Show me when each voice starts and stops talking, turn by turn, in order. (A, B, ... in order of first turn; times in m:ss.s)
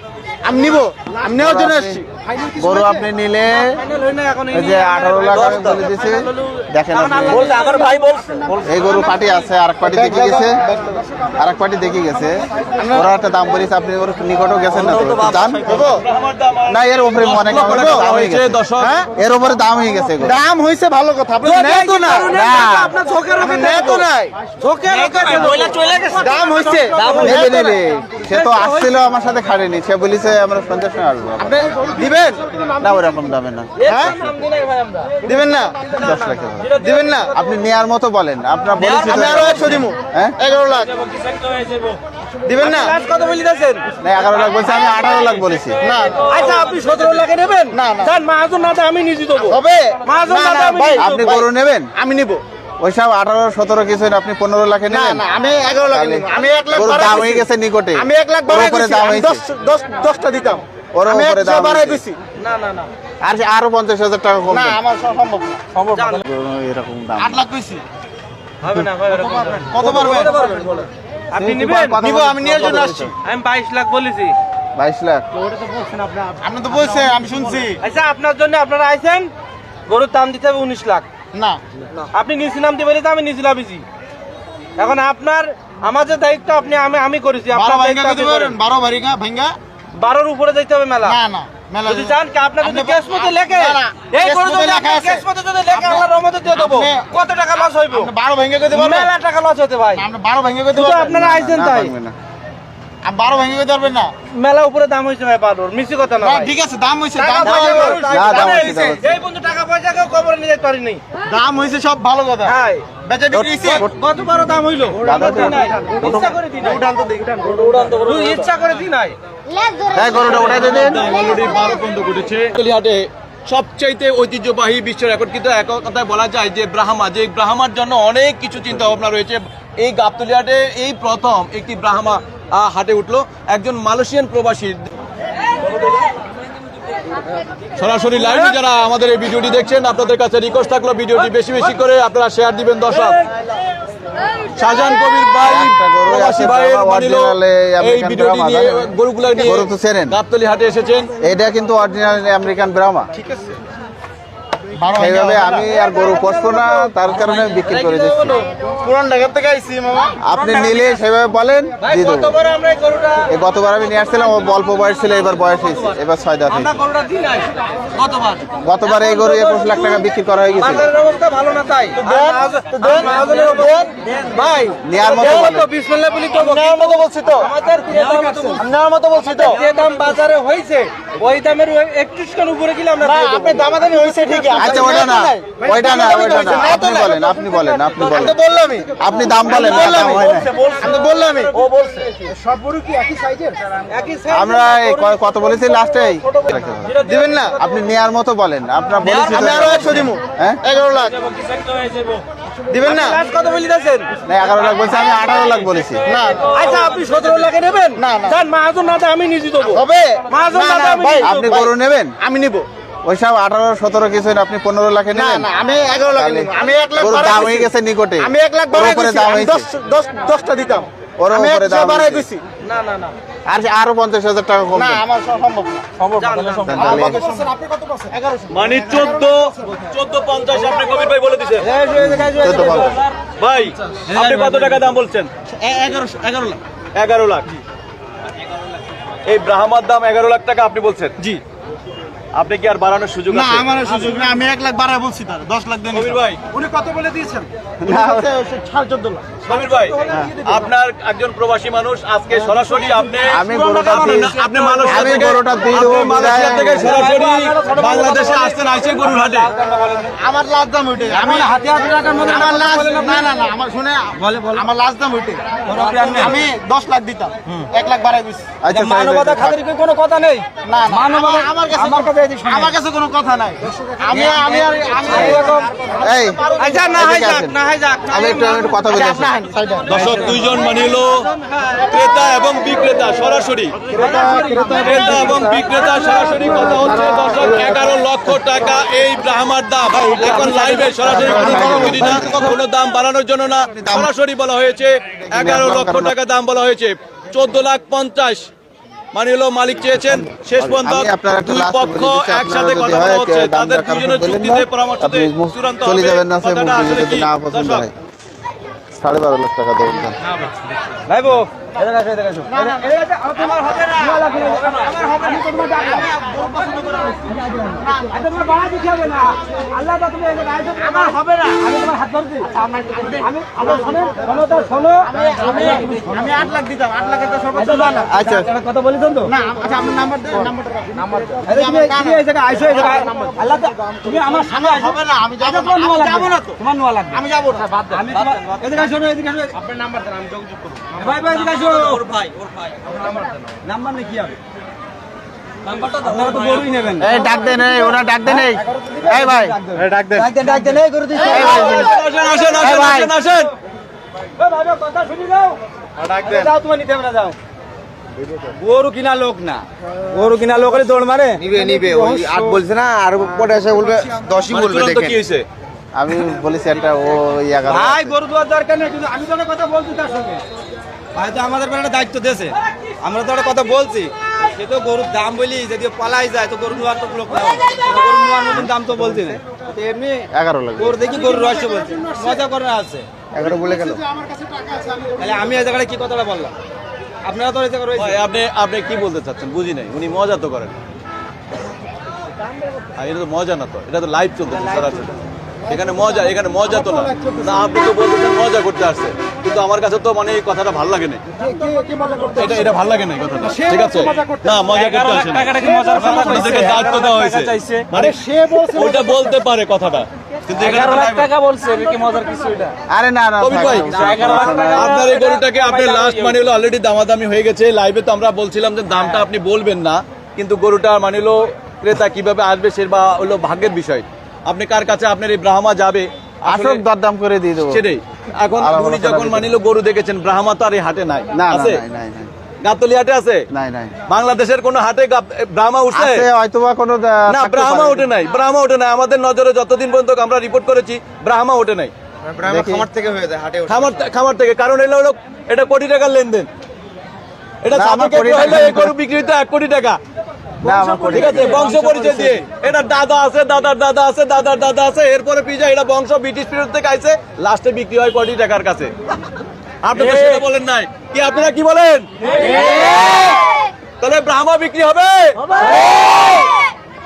0:00.4-0:02.0 A
0:01.3-0:03.8 B
0:03.5-0:08.4 C
0:04.5-0:07.5 B
0:05.4-0:05.8 D
0:07.3-0:09.0 D
0:08.6-0:10.6 B
0:09.8-0:11.0 A
0:11.4-0:15.8 B
0:12.7-0:13.1 A
0:14.8-0:19.0 D
0:14.8-0:16.0 A
0:16.7-0:18.6 B
0:17.6-0:18.0 A
0:18.8-0:19.1 A
0:19.1-0:20.4 B
0:20.2-0:22.4 A
0:21.4-0:24.1 C
0:22.3-0:22.9 B
0:23.4-0:27.8 A
0:24.6-0:27.6 C
0:27.1-0:31.9 B
0:28.3-0:29.0 C
0:31.4-0:32.4 A
0:32.6-0:34.2 B
0:33.8-0:35.2 C
0:33.9-0:34.1 A
0:35.2-0:36.0 A
0:36.0-0:36.8 B
0:36.6-0:37.2 C
0:36.8-0:37.3 A
0:37.3-0:40.4 B
0:38.8-0:40.9 A
0:39.2-0:39.8 C
0:41.1-0:42.0 C
0:42.4-0:43.0 A
0:42.6-0:43.9 C
0:44.0-0:45.8 B
0:45.8-0:46.4 A
0:46.2-0:51.4 C
0:47.7-0:48.1 A
0:49.4-0:52.4 A
0:51.0-0:51.9 B
0:52.8-0:55.2 B
0:54.9-1:02.2 A
0:55.9-0:59.4 B
1:00.9-1:02.0 B
1:02.4-1:02.9 C
1:03.2-1:04.8 B
1:04.5-1:05.7 A
1:05.9-1:06.2 C
1:06.2-1:07.4 B
1:07.2-1:07.8 A
1:08.6-1:10.7 C
1:09.7-1:10.8 A
1:11.3-1:12.0 C
1:11.3-1:13.1 B
1:12.0-1:13.1 A
1:13.2-1:14.4 C
1:14.7-1:15.3 B
1:15.6-1:15.9 C
1:16.3-1:17.8 A
1:17.8-1:19.3 C
1:19.9-1:21.1 C
1:21.3-1:21.6 A
1:22.0-1:23.8 C
1:24.8-1:28.6 C
1:27.5-1:29.6 A
1:29.9-1:31.2 C
1:31.0-1:37.0 A
1:31.8-1:38.1 C
1:37.9-1:39.1 A
1:38.7-1:40.0 C
1:39.9-1:41.3 A
1:40.7-1:41.9 C
1:41.2-1:42.2 B
1:43.0-1:44.1 A
1:44.3-1:46.5 C
1:46.2-1:49.0 A
1:47.2-1:51.0 C
1:47.9-1:49.0 B
1:51.3-1:53.8 A
1:52.4-1:52.8 C
1:53.3-1:53.9 B
1:53.6-1:56.8 C
1:55.0-1:56.4 B
1:56.6-1:57.7 A
1:57.5-1:58.4 D
1:57.9-1:59.2 C
1:59.9-2:01.1 B
2:00.1-2:14.9 D
2:17.8-2:23.2 D
2:24.6-2:31.1 D
2:25.4-2:30.2 B
2:31.2-2:33.1 B
2:34.8-2:35.7 A
2:34.9-2:38.4 B
2:36.0-2:38.5 C
2:38.8-2:40.2 A
2:40.2-2:42.4 B
2:40.4-2:40.9 C
2:41.8-2:43.3 C
2:43.3-2:46.8 B
2:46.5-2:58.6 C
2:48.6-2:50.9 B
2:52.0-2:53.9 A
2:54.8-2:55.7 B
2:56.3-2:57.5 A
2:58.0-2:59.6 A
2:59.4-3:03.7 C
3:03.0-3:07.2 A
3:04.5-3:08.4 B
3:05.6-3:06.3 C
3:08.0-3:11.6 A
3:09.0-3:10.5 B
3:09.5-3:10.9 D
3:10.0-3:10.7 C
3:11.5-3:12.1 D
3:12.3-3:13.6 A
3:13.9-3:15.2 C
3:14.3-3:17.0 B
3:16.5-3:17.3 C
3:17.0-3:17.6 A
3:17.6-3:20.6 B
3:19.0-3:21.2 A
3:21.3-3:22.2 C
3:22.7-3:23.2 A
3:22.8-3:24.1 C
3:24.2-3:26.0 B
3:26.0-3:27.0 A
3:26.5-3:31.5 C
3:28.0-3:28.4 A
3:29.6-3:32.6 A
3:31.2-3:32.2 B
3:33.0-3:35.5 B
3:35.1-3:42.4 A
3:36.1-3:39.7 B
3:41.2-3:42.3 B
3:42.6-3:43.1 C
3:43.5-3:45.0 B
3:44.7-3:45.9 A
3:46.0-3:46.7 E
3:46.2-3:47.1 C
3:46.6-3:47.2 B
3:46.7-3:49.3 A
3:48.5-3:51.7 D
3:51.7-3:52.8 E
3:52.0-3:53.0 B
3:52.4-3:52.9 A
3:52.7-3:53.0 C
3:53.4-3:55.3 D
3:55.5-3:56.6 A
3:56.9-3:57.5 D
3:59.2-4:01.2 D
4:02.3-4:03.7 D
4:03.3-4:09.2 A
4:05.9-4:06.4 D
4:07.8-4:08.3 B
4:09.4-4:19.5 D
4:10.1-4:10.4 B
4:13.2-4:17.0 B
4:14.4-4:15.2 C
4:16.8-4:20.0 C
4:20.1-4:28.5 A
4:21.1-4:23.3 E
4:24.2-4:24.7 E
4:25.7-4:26.4 E
4:28.6-4:29.6 B
4:28.7-4:32.8 E
4:30.6-4:36.9 A
4:34.1-4:35.7 E
4:36.0-4:37.5 B
4:36.6-4:38.8 C
4:38.1-4:39.4 B
4:39.0-4:40.0 A
4:39.9-4:41.3 D
4:41.8-4:43.9 D
4:43.9-4:45.5 A
4:44.0-4:45.0 E
4:44.0-4:44.3 C
4:44.7-4:58.5 D
4:50.0-4:52.1 A
4:51.0-4:52.6 B
4:53.8-4:54.1 B
4:55.2-4:56.1 B
4:59.1-5:07.9 D
5:00.6-5:07.9 B
5:08.9-5:10.2 B
5:11.1-5:13.5 E
5:12.5-5:18.2 A
5:13.6-5:14.1 C
5:14.0-5:16.0 E
5:14.8-5:15.4 C
5:17.3-5:26.2 E
5:20.9-5:21.5 C
5:23.6-5:23.9 A
5:25.1-5:28.2 A
5:25.5-5:26.0 C
5:27.5-5:29.3 E
5:28.1-5:28.5 B
5:29.2-5:33.5 A
5:31.4-5:37.2 E
5:34.1-5:36.6 A
5:37.1-5:38.0 A
5:37.9-5:39.6 E
5:38.2-5:38.7 C
5:39.6-5:42.3 C
5:41.0-5:42.1 E
5:43.6-5:44.4 E
5:45.7-5:46.6 C
5:45.9-5:47.2 E
5:47.0-5:49.6 B
5:48.2-5:52.0 E
5:49.8-5:50.7 A
5:51.1-5:53.5 D
5:51.2-5:51.8 B
5:51.2-5:51.9 A
5:52.6-5:53.0 E
5:54.4-5:55.6 E
5:56.0-5:56.6 A
5:56.2-5:57.3 E
5:58.5-6:02.6 E
6:01.4-6:05.2 A
6:04.5-6:05.4 D
6:05.9-6:08.2 B
6:07.7-6:10.4 E
6:11.1-6:23.0 E
6:18.5-6:18.9 B
6:20.3-6:21.0 B
6:21.3-6:22.3 A
6:23.3-6:24.0 B
6:23.5-6:24.0 A
6:24.9-6:25.2 A
6:25.2-6:26.5 E
6:27.2-6:28.2 E
6:27.9-6:30.7 D
6:33.0-6:41.2 D
6:41.7-6:42.4 A
6:42.3-6:51.3 D
6:44.8-6:46.4 C
6:45.0-6:47.8 E
6:45.5-6:47.1 A
6:47.9-6:49.0 A
6:50.6-6:51.0 C
6:50.8-6:52.7 E
6:52.9-6:55.1 B
6:53.4-7:06.8 D
6:54.0-6:54.7 E
6:54.8-6:56.3 C
7:06.4-7:07.8 B
7:07.6-7:11.8 D
7:08.6-7:09.5 B
7:11.3-7:12.3 B
7:12.6-7:13.4 D
7:13.5-7:14.0 B
7:14.1-7:16.3 D
7:15.9-7:18.1 B
7:17.3-7:21.9 D
7:22.2-7:24.0 A
7:22.4-7:22.9 B
7:23.7-7:26.5 D
7:27.6-7:30.0 D
7:27.7-7:28.9 B
7:30.6-7:31.7 B
7:30.7-7:32.4 E
7:31.1-7:32.0 A
7:31.1-7:38.9 D
7:39.8-7:43.4 D
7:44.0-7:45.6 D